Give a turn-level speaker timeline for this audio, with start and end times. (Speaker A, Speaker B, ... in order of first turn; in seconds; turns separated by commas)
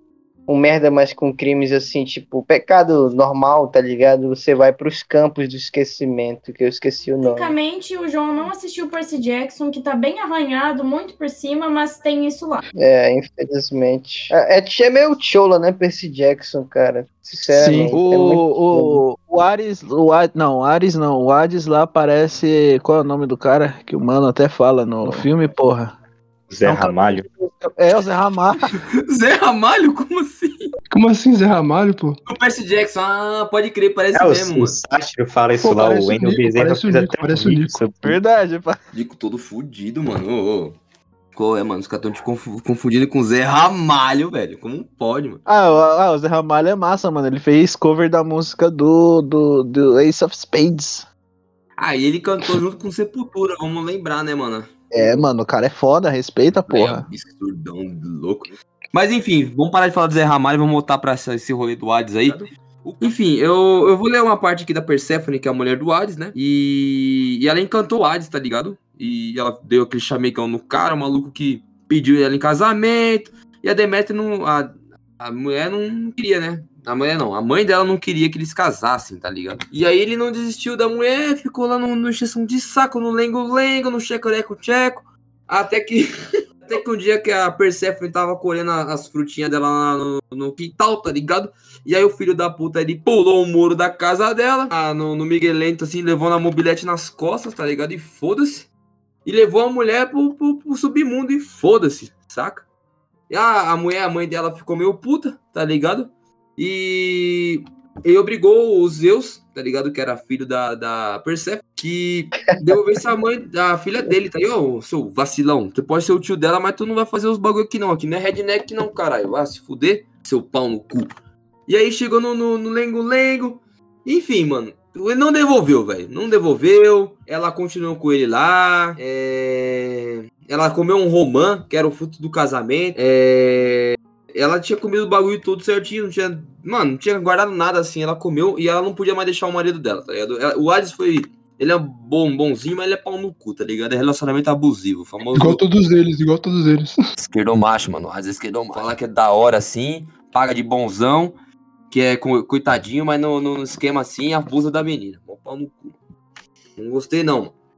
Speaker A: 0.5-7.5, Speaker B: 7.2-12.6, Speaker A: 12.8-19.0, Speaker C: 17.5-25.9, Speaker D: 26.5-27.3, Speaker C: 26.6-28.8, Speaker E: 28.9-30.7, Speaker F: 30.9-32.2, Speaker E: 32.3-34.8, Speaker D: 34.1-38.2, Speaker F: 35.6-37.9, Speaker C: 38.0-38.8, Speaker E: 38.9-40.8, Speaker E: 41.3-45.4, Speaker C: 45.5-51.1, Speaker E: 51.8-54.7, Speaker C: 54.9-57.0, Speaker E: 56.7-86.1, Speaker E: 86.6-98.7, Speaker E: 99.2-102.7, Speaker E: 103.3-121.1, Speaker E: 121.7-145.6, Speaker F: 145.3-147.0, Speaker E: 147.2-151.3, Speaker E: 151.9-156.0, Speaker E: 156.8-157.5